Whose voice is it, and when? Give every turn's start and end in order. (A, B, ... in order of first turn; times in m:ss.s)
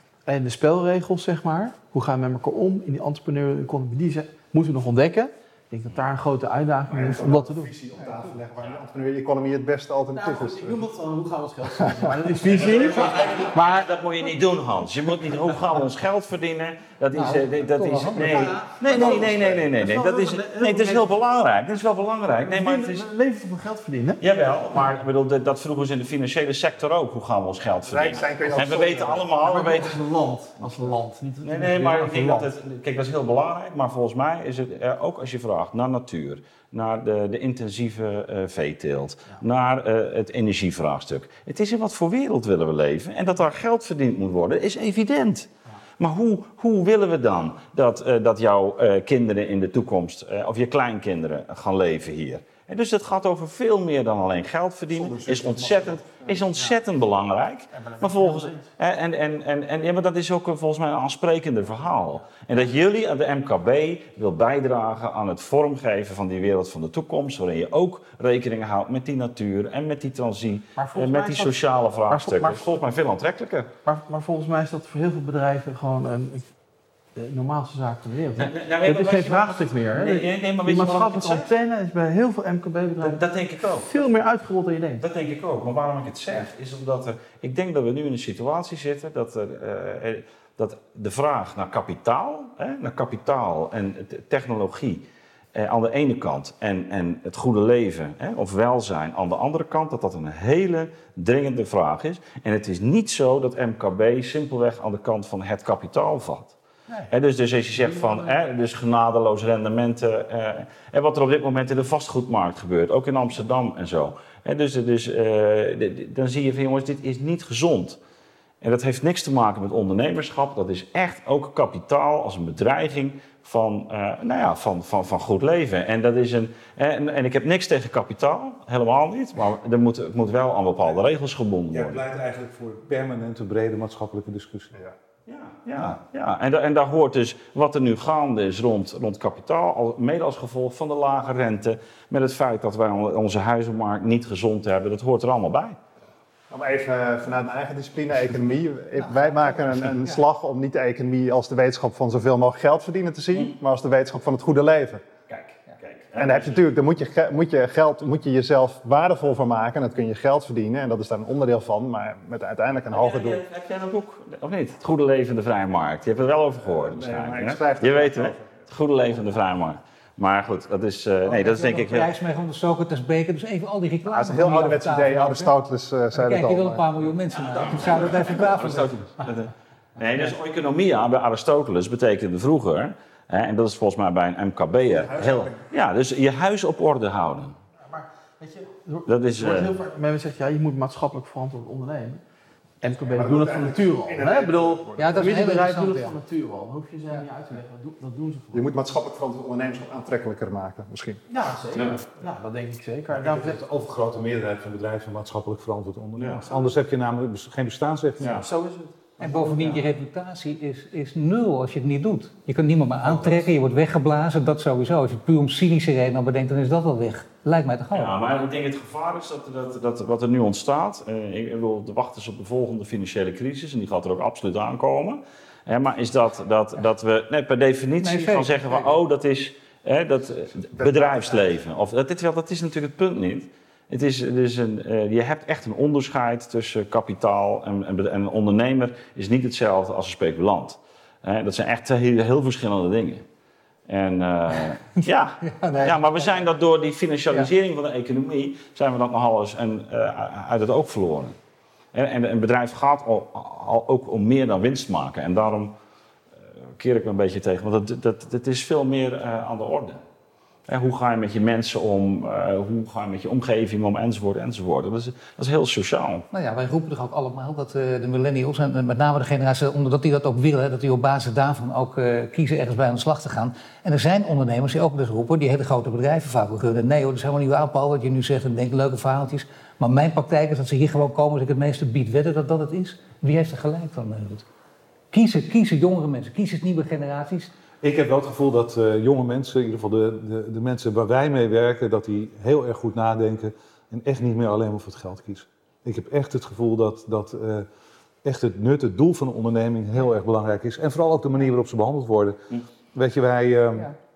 0:00.2-0:07.7 A
0:06.9-0:10.8 B
0:10.1-0:13.9 A
0:12.4-0:23.1 C
0:17.1-0:18.5 D
0:18.1-0:21.1 A
0:18.9-0:19.6 B
0:22.5-0:24.2 A
0:24.2-0:30.0 C
0:27.9-0:29.2 B
0:29.4-0:32.5 A
0:31.4-1:13.7 C
0:54.9-0:56.4 B
0:57.8-0:58.6 A
1:10.8-1:12.6 A
1:13.8-1:16.5 A
1:17.1-1:25.0 A
1:18.4-1:21.5 C
1:23.0-1:24.0 C
1:25.0-1:46.5 C
1:47.1-1:58.0 C
1:47.9-1:48.2 A
1:58.6-2:12.0 C
2:11.7-2:14.7 E
2:15.3-2:25.8 C
2:26.5-2:35.0 B
2:35.3-2:36.7 C
2:36.1-2:43.4 B
2:42.9-2:52.1 C
2:46.7-2:48.4 B
2:51.2-2:55.5 D
2:54.1-2:56.8 B
2:56.1-2:59.1 D
2:57.4-3:07.6 C
3:04.9-3:05.6 B
3:07.9-3:12.2 A
3:09.1-3:09.8 C
3:12.8-3:18.7 A
3:13.1-3:15.4 B
3:15.0-3:16.1 D
3:18.5-3:21.2 B
3:21.3-3:23.6 A
3:21.7-3:22.0 C
3:23.1-3:28.4 E
3:26.2-3:26.4 C
3:28.2-3:28.4 C
3:28.4-3:29.8 A
3:29.2-3:38.4 D
3:37.9-4:03.2 C
3:48.0-3:48.9 D
3:50.7-3:51.6 B
4:03.9-4:11.3 C
4:05.5-4:05.9 D
4:11.9-4:15.7 C
4:16.8-4:20.0 C
4:20.7-4:26.2 C
4:26.3-4:44.4 D
4:45.1-4:47.5 D
4:47.8-4:57.7 E
4:58.2-5:03.9 E